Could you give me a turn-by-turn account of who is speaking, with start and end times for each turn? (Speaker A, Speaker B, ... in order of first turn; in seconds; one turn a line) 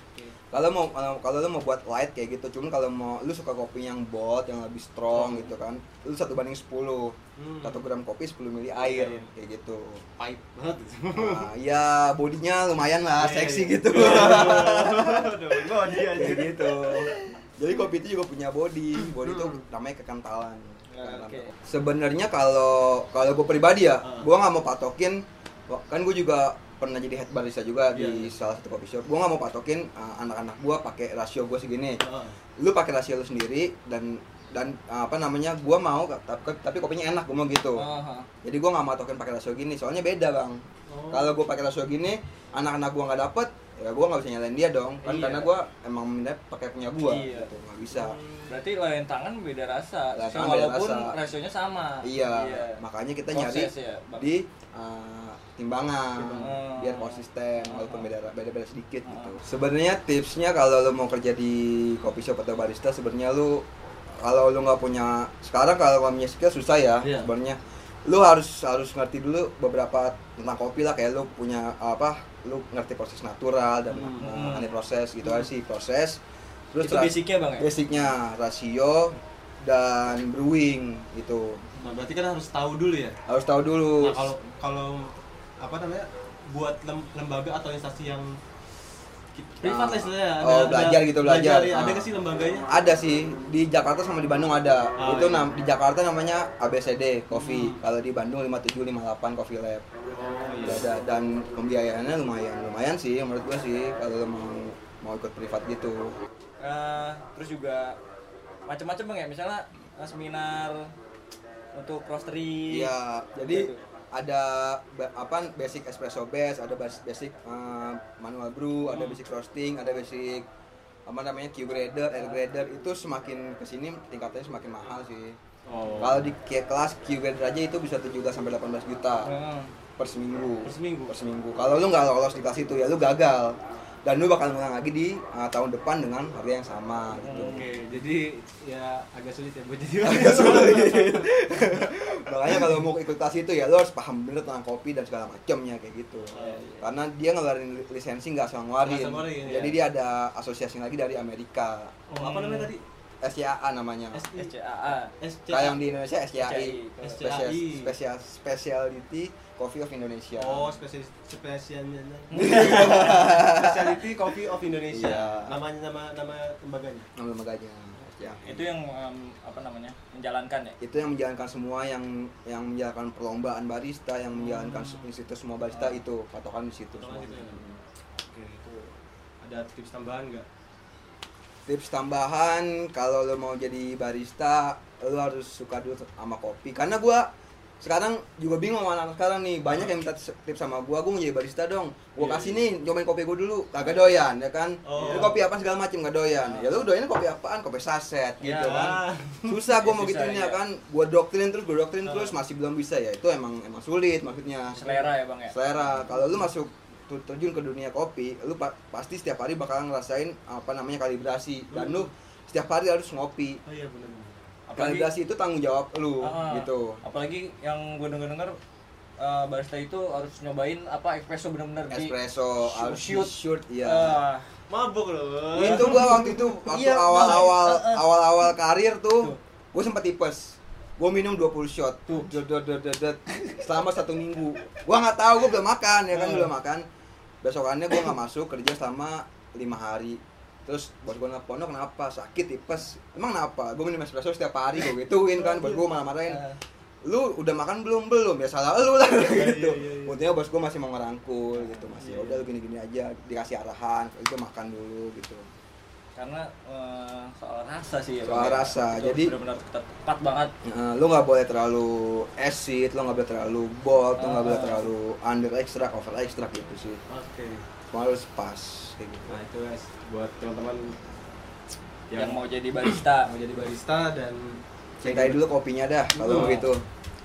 Speaker A: 0.5-10.0
Speaker B: 5.1-5.5
Speaker B: 7.4-7.8
Speaker B: 8.8-9.3
Speaker B: 10.2-11.4
Speaker A: 11.2-32.0
Speaker B: 13.2-16.9
Speaker B: 19.1-19.6
Speaker C: 20.9-21.5
Speaker B: 27.9-28.3
Speaker B: 32.0-32.4
Speaker A: 32.6-37.9
Speaker C: 37.8-38.3
Speaker A: 38.4-40.6
Speaker B: 40.9-41.4
Speaker A: 41.1-48.2
Speaker C: 45.0-45.5
Speaker C: 47.0-47.5
Speaker B: 47.9-48.6
Speaker C: 48.5-52.8
Speaker A: 50.1-51.1
Speaker A: 52.0-63.7
Speaker C: 53.3-54.3
Speaker B: 56.2-56.5
Speaker C: 56.4-58.1
Speaker C: 59.1-59.4
Speaker A: 64.2-76.2
Speaker B: 67.0-67.3
Speaker B: 73.9-74.2
Speaker C: 74.2-74.7
Speaker A: 76.7-81.6
Speaker C: 76.8-77.7
Speaker B: 81.8-83.2
Speaker A: 83.3-84.3
Speaker B: 84.0-88.3
Speaker B: 89.3-92.7
Speaker A: 89.6-92.1
Speaker A: 92.7-99.8
Speaker B: 95.0-95.5
Speaker B: 97.3-97.8
Speaker B: 100.1-100.9
Speaker A: 100.6-106.1
Speaker C: 106.6-108.0
Speaker C: 108.7-110.9
Speaker C: 111.7-113.8
Speaker A: 112.7-120.5
Speaker A: 121.1-125.4
Speaker B: 125.7-126.3
Speaker A: 126.0-129.3
Speaker C: 129.2-129.7
Speaker A: 130.0-137.6
Speaker B: 130.6-131.2
Speaker C: 137.1-137.8
Speaker B: 137.3-141.7
Speaker A: 140.0-152.0
Speaker B: 146.3-146.6
Speaker C: 146.4-146.9
Speaker B: 148.8-149.8
Speaker B: 152.1-152.8
Speaker C: 152.2-152.7
Speaker A: 153.2-154.2
Speaker B: 154.1-155.8
Speaker C: 154.3-155.1
Speaker A: 155.5-160.8
Speaker C: 156.4-157.2
Speaker B: 157.0-157.9
Speaker B: 160.4-167.1
Speaker C: 162.3-163.3
Speaker A: 162.3-164.0
Speaker A: 164.9-165.6
Speaker A: 167.2-168.6
Speaker C: 168.4-170.8
Speaker A: 170.8-177.8
Speaker B: 174.3-175.1
Speaker C: 175.7-176.0
Speaker B: 176.9-177.7
Speaker B: 178.2-178.8
Speaker B: 179.4-180.5
Speaker A: 181.7-187.3
Speaker A: 187.8-205.0
Speaker B: 192.2-192.6
Speaker B: 194.8-195.4
Speaker B: 196.4-196.8
Speaker B: 198.4-199.6
Speaker C: 199.8-200.6
Speaker B: 202.0-202.4
Speaker C: 204.8-205.6
Speaker B: 204.8-205.1
Speaker A: 205.5-213.6
Speaker B: 205.8-206.4
Speaker B: 211.7-212.1
Speaker B: 213.7-214.5
Speaker C: 214.7-215.1
Speaker A: 214.8-217.0
Speaker C: 216.2-218.6
Speaker C: 219.2-224.5
Speaker A: 221.9-224.2
Speaker B: 224.7-226.2
Speaker A: 225.5-236.8
Speaker C: 225.6-228.1
Speaker C: 232.1-232.3
Speaker C: 233.3-233.8
Speaker C: 236.1-236.5
Speaker A: 237.4-246.4
Speaker B: 245.3-245.8
Speaker A: 247.0-255.4
Speaker B: 249.2-250.2
Speaker C: 251.6-251.9
Speaker B: 252.0-252.5
Speaker C: 256.2-260.5
Speaker A: 258.2-259.3
Speaker A: 260.6-267.0
Speaker C: 264.2-264.9
Speaker B: 267.1-267.6
Speaker A: 267.9-269.4
Speaker B: 269.3-270.9
Speaker B: 272.1-275.4
Speaker C: 272.1-273.3
Speaker A: 275.0-276.8
Speaker B: 276.2-276.7
Speaker C: 276.3-276.7